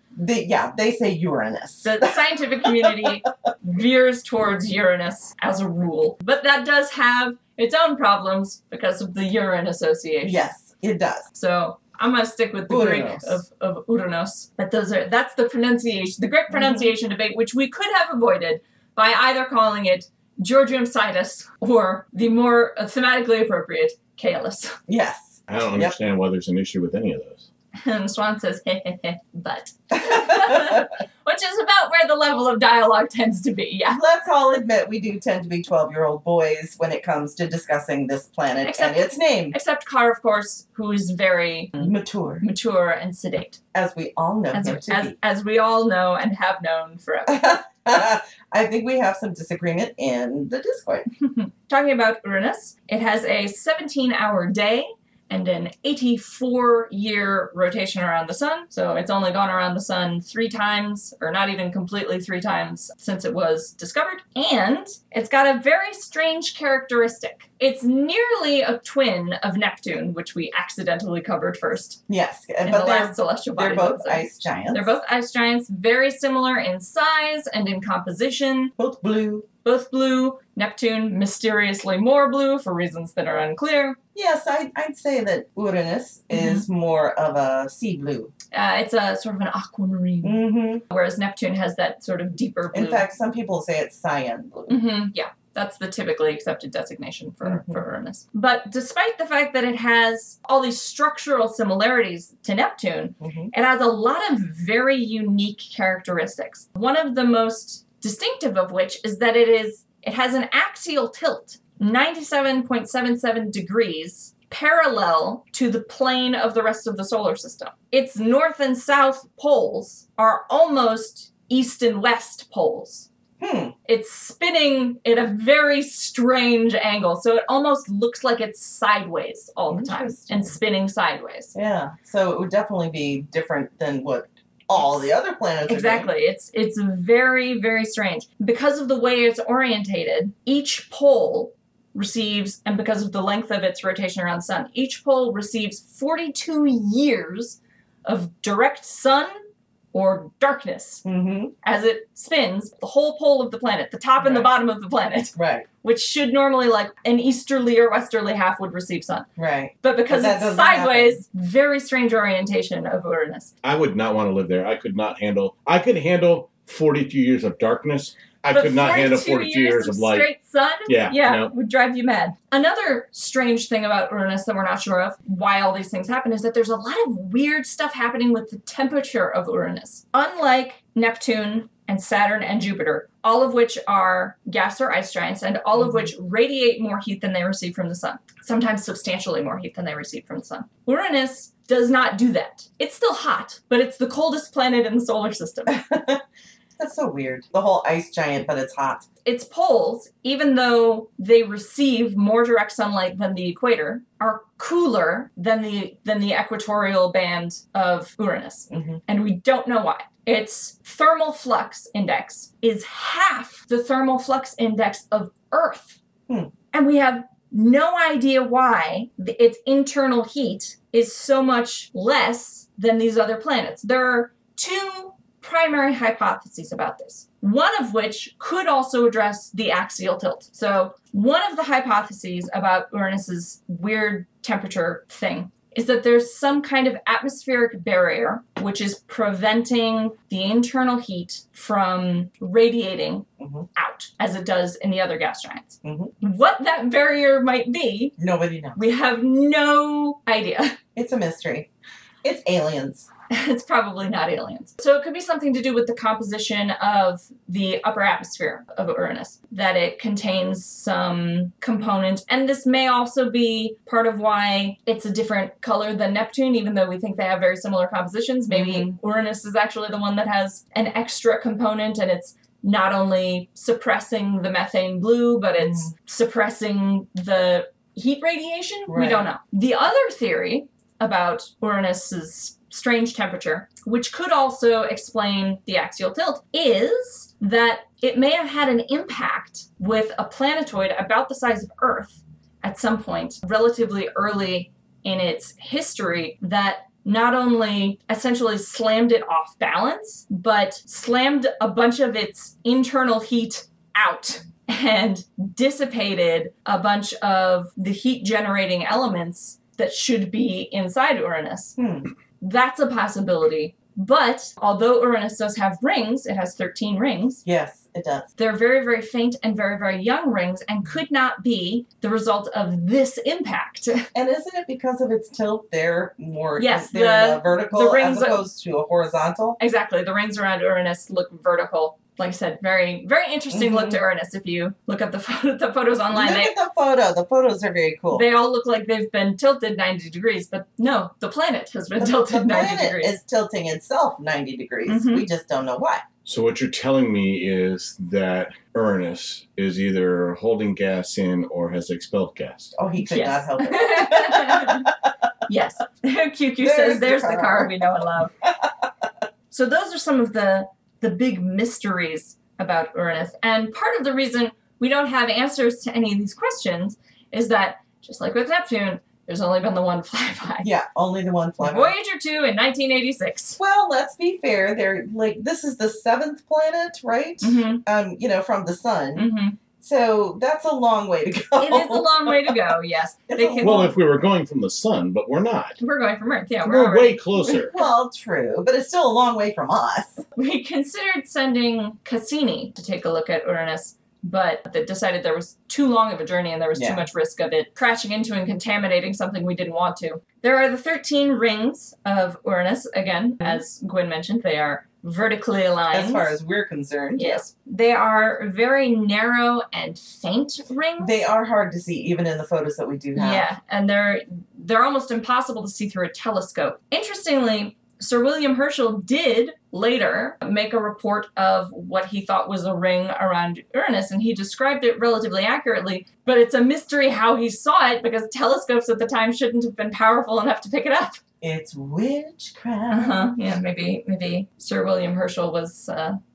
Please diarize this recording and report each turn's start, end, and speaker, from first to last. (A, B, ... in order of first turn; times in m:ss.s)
0:00.2-0:03.1 A
0:01.8-0:10.5 B
0:10.2-0:11.2 A
0:11.3-0:24.8 B
0:12.7-0:13.4 A
0:16.5-0:16.9 A
0:24.9-0:26.0 A
0:25.5-0:27.5 C
0:27.8-0:34.0 B
0:29.9-0:30.9 A
0:33.9-0:39.6 A
0:38.6-0:43.6 B
0:41.8-0:42.4 A
0:43.7-0:45.2 A
0:44.5-0:47.6 B
0:47.3-0:51.1 A
0:51.2-1:12.0 B
1:12.1-1:15.0 A
1:12.6-1:18.7 B
1:18.8-1:19.5 A
1:19.6-1:24.0 B
1:24.2-1:28.3 A
1:26.3-1:26.7 B
1:28.5-1:33.1 B
1:30.2-1:30.8 A
1:32.7-1:34.8 A
1:34.7-2:03.1 B
1:37.4-1:37.8 A
1:43.2-1:43.5 A
2:03.4-2:03.8 A
2:03.9-2:11.5 B
2:09.7-2:10.6 A
2:11.5-2:16.1 A
2:15.7-2:29.3 B
2:29.9-2:31.0 B
2:31.0-2:31.5 A
2:31.6-2:39.3 B
2:34.2-2:34.5 A
2:35.4-2:35.7 A
2:39.4-2:41.2 A
2:39.8-2:43.5 B
2:43.6-2:50.3 C
2:48.5-3:15.8 B
2:50.9-2:51.5 C
3:05.8-3:06.1 A
3:15.7-3:16.2 A
3:16.8-3:19.1 A
3:19.2-3:36.0 B
3:28.7-3:29.0 A
3:36.7-4:08.2 B
4:03.4-4:03.7 A
4:05.8-4:06.1 A
4:08.2-4:08.8 A
4:08.8-4:10.8 B
4:11.0-4:11.7 A
4:12.2-4:13.1 A
4:13.3-5:11.8 B
4:28.5-4:29.0 A
4:35.6-4:35.9 A
4:38.9-4:39.3 A
5:11.8-5:12.1 A
5:12.4-5:17.4 B
5:17.4-5:18.3 A
5:18.4-5:24.1 B
5:24.1-5:29.6 A
5:26.6-5:28.4 B
5:29.6-5:36.6 B
5:33.5-5:34.0 A
5:36.1-5:38.3 A
5:38.1-5:43.2 B
5:42.0-5:46.0 A
5:44.9-5:45.3 B
5:46.3-5:52.7 C
5:52.8-5:54.9 A
5:53.0-5:54.9 B
5:55.5-5:58.3 B
5:56.6-5:57.8 A
5:59.5-6:10.7 B
6:10.6-6:11.9 A
6:11.6-6:13.6 B
6:13.6-6:19.3 A
6:17.4-6:17.8 B
6:19.2-6:19.6 B
6:19.8-6:22.6 A
6:21.6-6:23.9 B
6:23.3-6:23.9 A
6:23.6-6:25.8 C
6:25.8-6:27.9 B
6:26.6-6:27.7 C
6:27.5-6:30.2 A
6:30.4-6:46.4 B
6:36.8-6:37.0 A
6:45.9-6:47.4 A
6:47.2-6:51.2 B
6:51.0-6:53.5 A
6:53.2-7:11.2 B
7:11.4-7:13.3 A
7:12.9-7:16.2 B